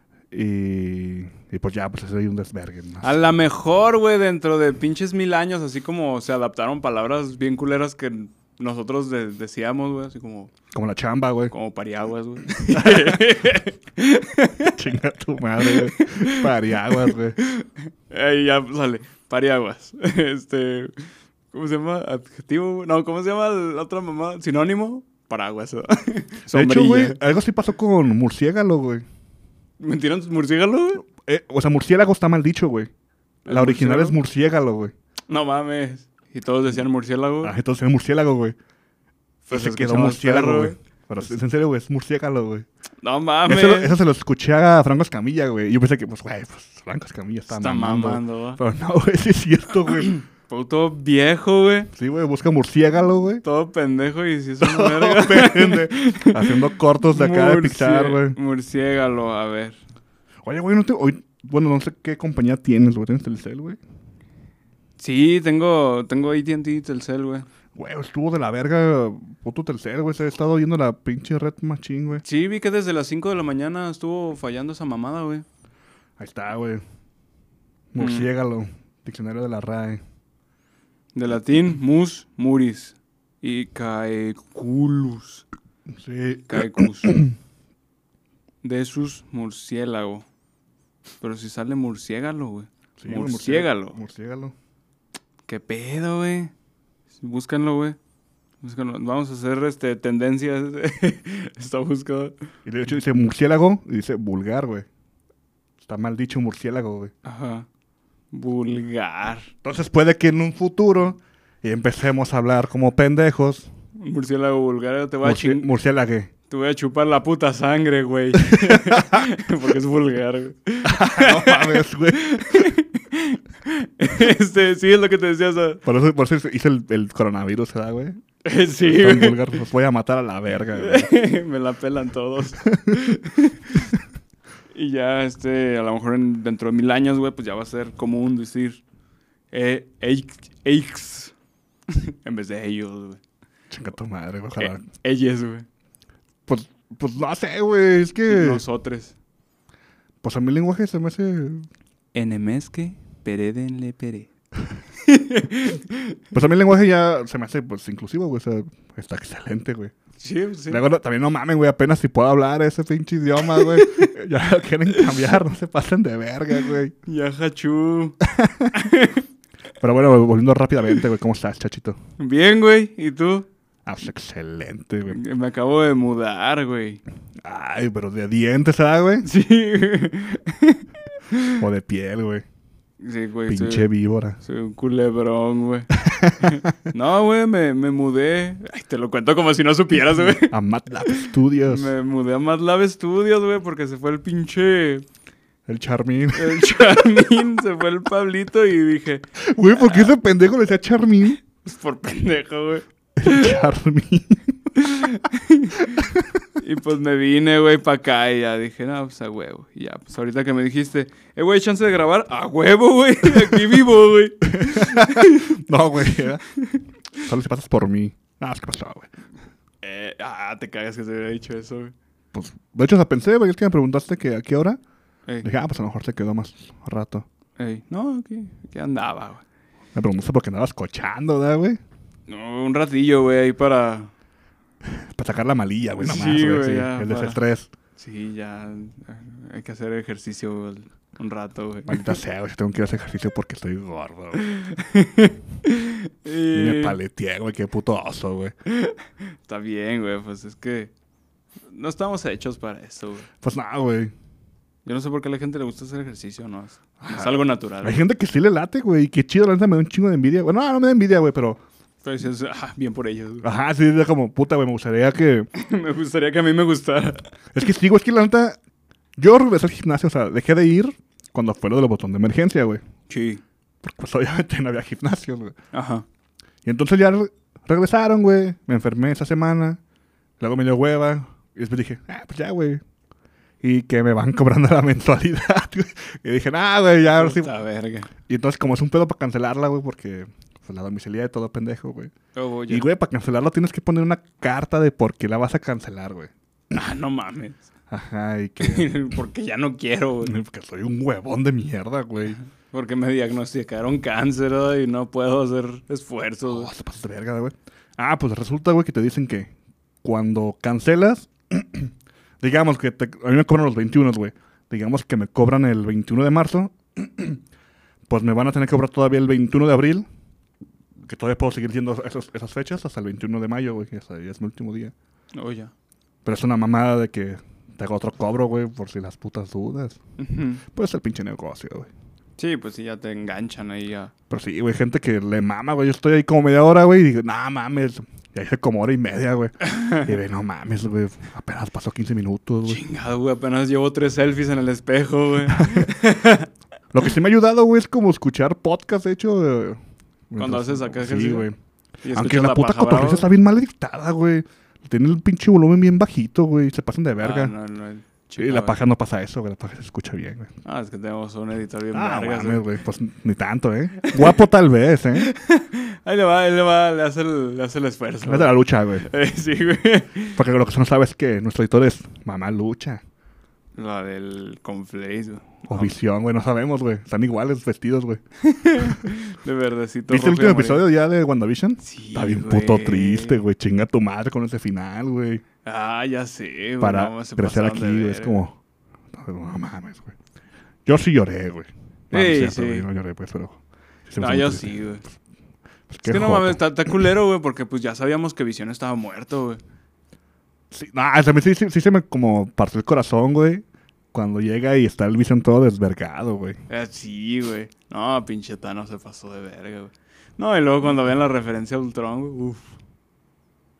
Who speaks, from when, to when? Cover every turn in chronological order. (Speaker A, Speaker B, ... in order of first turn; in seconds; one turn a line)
Speaker A: 0.3-3.1
Speaker B: 3.0-10.5
Speaker A: 10.7-11.5
Speaker B: 11.5-14.8
Speaker A: 12.7-13.3
Speaker A: 14.7-17.4
Speaker B: 15.6-20.9
Speaker B: 21.5-27.2
Speaker A: 26.5-29.1
Speaker B: 29.8-31.1
Speaker A: 31.1-32.9
Speaker B: 33.5-34.2
Speaker A: 33.5-34.9
Speaker B: 35.3-37.5
Speaker A: 37.4-38.6
Speaker B: 39.5-40.8
Speaker A: 39.5-42.7
Speaker B: 43.0-44.0
Speaker A: 43.5-50.1
Speaker B: 47.5-48.6
Speaker B: 49.9-51.9
Speaker A: 52.0-53.4
Speaker B: 53.4-56.5
Speaker A: 54.6-58.4
Speaker B: 57.0-59.8
Speaker A: 60.4-63.8
Speaker B: 65.0-67.5
Speaker A: 67.8-72.2
Speaker B: 72.2-75.5
Speaker A: 76.2-76.8
Speaker A: 77.9-80.0
Speaker B: 78.0-78.3
Speaker B: 81.2-85.5
Speaker A: 85.9-87.3
Speaker B: 86.5-87.2
Speaker B: 88.6-90.3
Speaker B: 91.2-94.0
Speaker A: 93.0-94.5
Speaker B: 95.5-96.5
Speaker B: 97.2-98.0
Speaker B: 98.6-102.3
Speaker A: 102.7-104.9
Speaker A: 105.8-107.1
Speaker B: 107.2-107.7
Speaker B: 108.3-109.5
Speaker A: 109.6-113.7
Speaker B: 114.0-115.7
Speaker A: 115.2-116.3
Speaker B: 116.5-125.8
Speaker A: 118.4-119.3
Speaker A: 120.8-122.7
Speaker A: 125.8-128.2
Speaker B: 128.4-129.6
Speaker A: 128.8-131.1
Speaker B: 130.8-133.8
Speaker A: 132.7-133.1
Speaker B: 134.7-138.8
Speaker B: 139.5-141.3
Speaker B: 141.9-143.2
Speaker A: 143.7-144.8
Speaker B: 144.6-145.7
Speaker A: 146.5-148.6
Speaker B: 148.3-149.2
Speaker A: 150.2-151.7
Speaker B: 152.1-154.3
Speaker B: 155.0-156.2
Speaker A: 156.3-159.9
Speaker B: 160.2-160.8
Speaker A: 160.7-166.9
Speaker B: 163.6-164.1
Speaker B: 167.1-168.2
Speaker A: 168.2-168.8
Speaker B: 168.7-169.2
Speaker A: 169.8-172.0
Speaker B: 172.2-173.5
Speaker A: 173.9-175.2
Speaker B: 175.1-177.0
Speaker A: 177.4-179.3
Speaker B: 179.2-181.6
Speaker A: 181.6-182.4
Speaker B: 183.0-183.9
Speaker A: 183.5-184.4
Speaker B: 184.4-190.5
Speaker A: 185.9-186.7
Speaker A: 190.1-191.9
Speaker B: 191.1-195.1
Speaker A: 195.7-196.8
Speaker B: 196.3-200.1
Speaker A: 199.4-201.4
Speaker B: 201.5-203.6
Speaker A: 203.2-204.6
Speaker B: 204.8-215.6
Speaker A: 205.9-206.4
Speaker A: 214.5-216.4
Speaker B: 216.6-216.8
Speaker A: 217.2-219.1
Speaker B: 219.8-221.9
Speaker A: 222.3-224.8
Speaker A: 225.4-227.3
Speaker B: 227.6-229.4
Speaker A: 229.9-231.8
Speaker B: 232.3-234.1
Speaker A: 234.8-237.7
Speaker B: 236.0-237.4
Speaker B: 238.0-242.2
Speaker A: 241.9-244.4
Speaker B: 244.3-247.0
Speaker A: 246.5-248.5
Speaker B: 248.7-250.9
Speaker B: 251.7-253.3
Speaker A: 253.4-254.1
Speaker B: 254.8-258.0
Speaker A: 257.0-261.6
Speaker B: 262.0-263.5
Speaker A: 263.4-265.5
Speaker B: 265.6-267.3
Speaker A: 267.5-268.6
Speaker A: 269.2-272.8
Speaker B: 273.1-273.4
Speaker A: 273.8-275.5
Speaker B: 275.7-276.1
Speaker A: 276.6-279.8
Speaker A: 280.4-282.8
Speaker A: 283.6-287.5
Speaker B: 287.2-288.1
Speaker A: 288.3-292.1
Speaker B: 292.4-292.9
Speaker A: 292.7-296.3
Speaker B: 296.7-297.6
Speaker A: 297.9-298.9
Speaker B: 298.6-300.3
Speaker A: 300.2-302.4
Speaker B: 302.7-306.7
Speaker A: 306.4-309.5
Speaker A: 310.0-317.4
Speaker A: 318.1-320.1
Speaker A: 321.1-324.9
Speaker B: 325.3-325.7
Speaker A: 326.2-330.0
Speaker B: 330.2-330.6
Speaker A: 330.7-331.9
Speaker B: 332.4-334.1
Speaker A: 334.3-342.8
Speaker B: 339.7-340.1
Speaker B: 342.6-346.5
Speaker A: 345.5-345.9
Speaker A: 346.9-349.8
Speaker A: 350.3-351.6
Speaker B: 350.4-351.5
Speaker B: 352.0-353.3
Speaker A: 352.1-357.5
Speaker B: 357.2-358.8
Speaker A: 358.4-360.5
Speaker B: 360.6-362.6
Speaker A: 361.9-365.3
Speaker B: 364.0-364.4
Speaker B: 365.2-370.4
Speaker A: 368.2-369.1
Speaker A: 370.4-373.0
Speaker B: 373.8-375.9
Speaker A: 375.7-378.2
Speaker B: 378.4-380.9
Speaker A: 380.1-385.4
Speaker B: 381.8-383.4
Speaker B: 385.6-388.4
Speaker A: 386.8-388.6
Speaker A: 389.1-390.2
Speaker A: 390.9-395.1
Speaker B: 392.1-392.9
Speaker B: 394.2-395.1
Speaker A: 395.9-396.6
Speaker B: 396.1-399.6
Speaker A: 400.7-406.6
Speaker B: 406.7-412.7